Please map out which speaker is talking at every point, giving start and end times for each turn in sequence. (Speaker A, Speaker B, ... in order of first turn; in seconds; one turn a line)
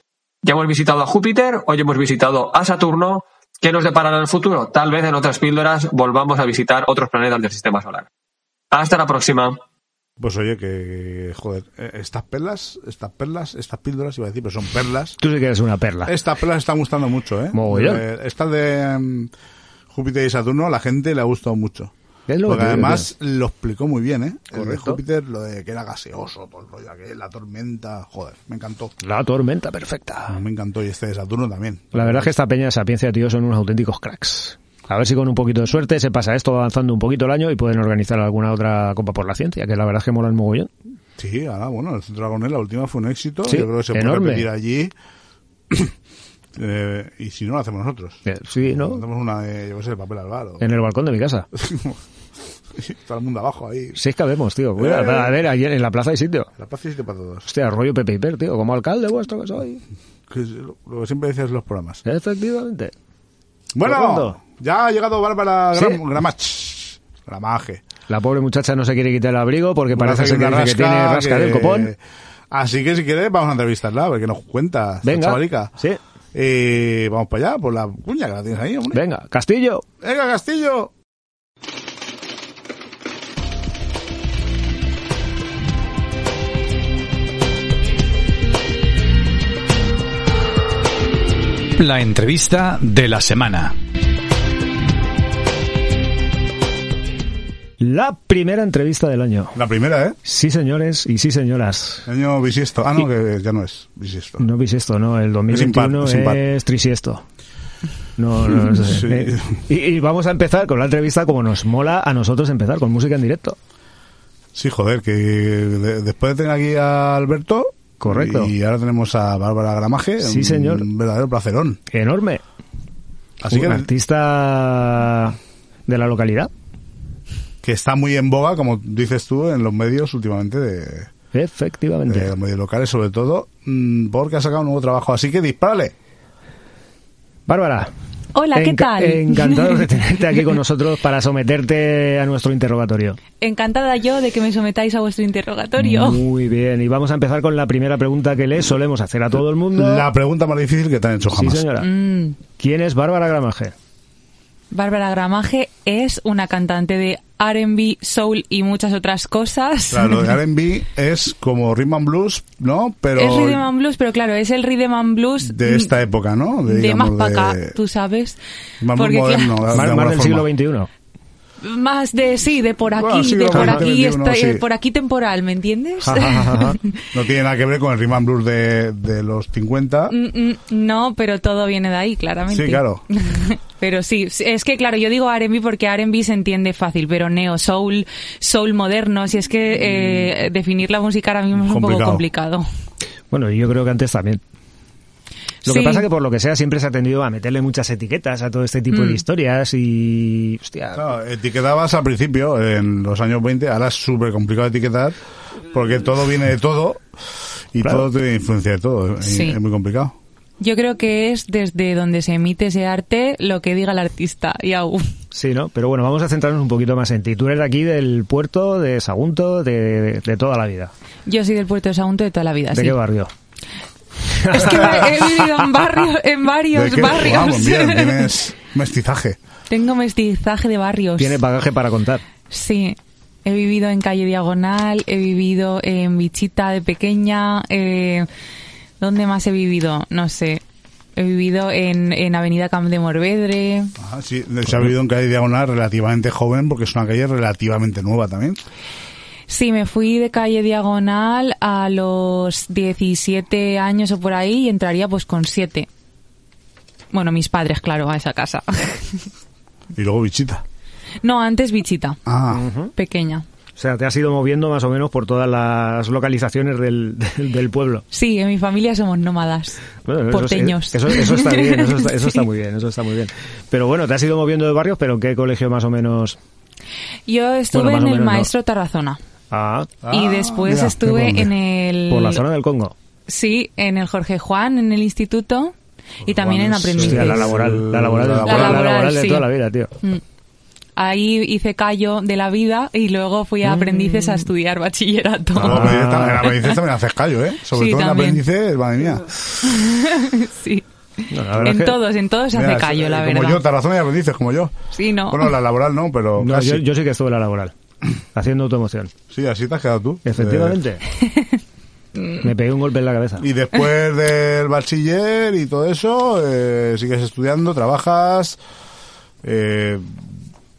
Speaker A: 0.4-8.1
Speaker A: 8.7-9.6
Speaker B: 10.2-15.2
Speaker C: 15.2-16.1
Speaker B: 16.1-19.3
Speaker C: 17.5-18.0
Speaker B: 19.9-21.9
Speaker C: 22.3-23.1
Speaker B: 22.4-28.9
Speaker C: 24.5-25.0
Speaker C: 29.0-30.4
Speaker B: 30.3-32.3
Speaker C: 31.9-40.7
Speaker B: 41.2-44.9
Speaker C: 43.5-44.5
Speaker B: 46.5-50.6
Speaker C: 48.2-49.0
Speaker C: 50.6-51.5
Speaker B: 51.5-52.0
Speaker B: 52.8-54.0
Speaker C: 53.9-56.5
Speaker B: 54.8-55.3
Speaker B: 56.6-57.5
Speaker C: 57.5-59.8
Speaker B: 60.3-62.0
Speaker C: 62.0-62.9
Speaker B: 63.7-67.8
Speaker C: 63.8-64.4
Speaker C: 65.7-66.0
Speaker C: 68.1-71.9
Speaker B: 69.9-72.0
Speaker B: 72.5-75.7
Speaker C: 75.0-76.0
Speaker B: 76.3-79.0
Speaker C: 78.9-79.8
Speaker B: 80.0-80.9
Speaker D: 91.8-93.8
Speaker C: 97.8-99.6
Speaker B: 99.5-100.2
Speaker C: 100.2-102.1
Speaker B: 102.0-104.4
Speaker C: 104.4-107.2
Speaker B: 105.5-106.4
Speaker C: 108.2-113.6
Speaker B: 108.6-109.6
Speaker B: 114.5-121.8
Speaker C: 118.0-118.5
Speaker C: 120.2-120.9
Speaker C: 121.9-122.4
Speaker B: 123.4-123.9
Speaker C: 123.5-126.5
Speaker B: 127.6-131.1
Speaker C: 131.3-132.3
Speaker B: 132.1-135.9
Speaker C: 137.5-137.9
Speaker E: 138.3-140.0
Speaker C: 138.5-143.2
Speaker E: 143.4-146.2
Speaker C: 145.8-150.1
Speaker B: 149.7-151.7
Speaker C: 151.3-151.9
Speaker E: 151.8-152.4
Speaker C: 152.6-153.7
Speaker E: 154.7-160.4
Speaker B: 159.9-163.7
Speaker E: 163.2-165.9
Speaker B: 165.4-167.8
Speaker E: 166.6-168.4
Speaker B: 168.8-170.5
Speaker E: 168.9-169.6
Speaker C: 169.7-170.9
Speaker E: 171.6-176.9
Speaker B: 173.0-174.6
Speaker C: 173.5-173.8
Speaker C: 176.0-176.8
Speaker B: 177.1-180.1
Speaker E: 180.1-192.7
Speaker B: 182.5-183.0
Speaker B: 191.5-192.2
Speaker C: 193.3-194.4
Speaker E: 195.6-196.1
Speaker C: 195.7-201.1
Speaker E: 198.9-199.2
Speaker B: 200.9-205.2
Speaker B: 205.7-207.0
Speaker B: 207.7-210.1
Speaker E: 209.2-209.6
Speaker E: 210.6-215.1
Speaker C: 215.3-220.9
Speaker E: 221.2-223.0
Speaker C: 222.7-223.3
Speaker C: 224.4-225.3
Speaker E: 224.5-228.3
Speaker B: 226.7-229.4
Speaker E: 229.7-231.4
Speaker C: 231.2-232.2
Speaker E: 232.5-238.3
Speaker E: 239.0-240.6
Speaker E: 241.2-243.9
Speaker B: 244.0-248.6
Speaker E: 249.5-255.9
Speaker E: 257.1-259.2
Speaker B: 259.9-260.6
Speaker E: 261.2-262.2
Speaker B: 262.2-262.6
Speaker C: 262.5-262.9
Speaker E: 262.9-263.4
Speaker C: 263.8-268.0
Speaker E: 268.1-272.4
Speaker C: 270.0-276.4
Speaker E: 277.3-279.2
Speaker C: 277.7-278.5
Speaker C: 279.5-279.9
Speaker B: 280.0-281.2
Speaker E: 280.1-282.4
Speaker C: 281.0-281.5
Speaker C: 282.1-282.9
Speaker E: 283.3-285.7
Speaker B: 286.2-288.9
Speaker E: 286.2-287.5
Speaker C: 287.0-289.9
Speaker E: 288.4-289.5
Speaker E: 291.0-296.0
Speaker C: 293.6-294.4
Speaker C: 295.5-296.5
Speaker B: 295.6-299.3
Speaker E: 297.7-298.4
Speaker E: 299.6-300.8
Speaker C: 301.3-302.0
Speaker E: 301.6-303.6
Speaker B: 302.5-304.8
Speaker E: 304.9-305.5
Speaker B: 305.3-306.8
Speaker C: 306.4-307.7
Speaker C: 308.3-309.1
Speaker B: 309.3-310.8
Speaker C: 310.2-311.0
Speaker C: 312.4-313.4
Speaker B: 313.4-318.6
Speaker B: 319.4-320.2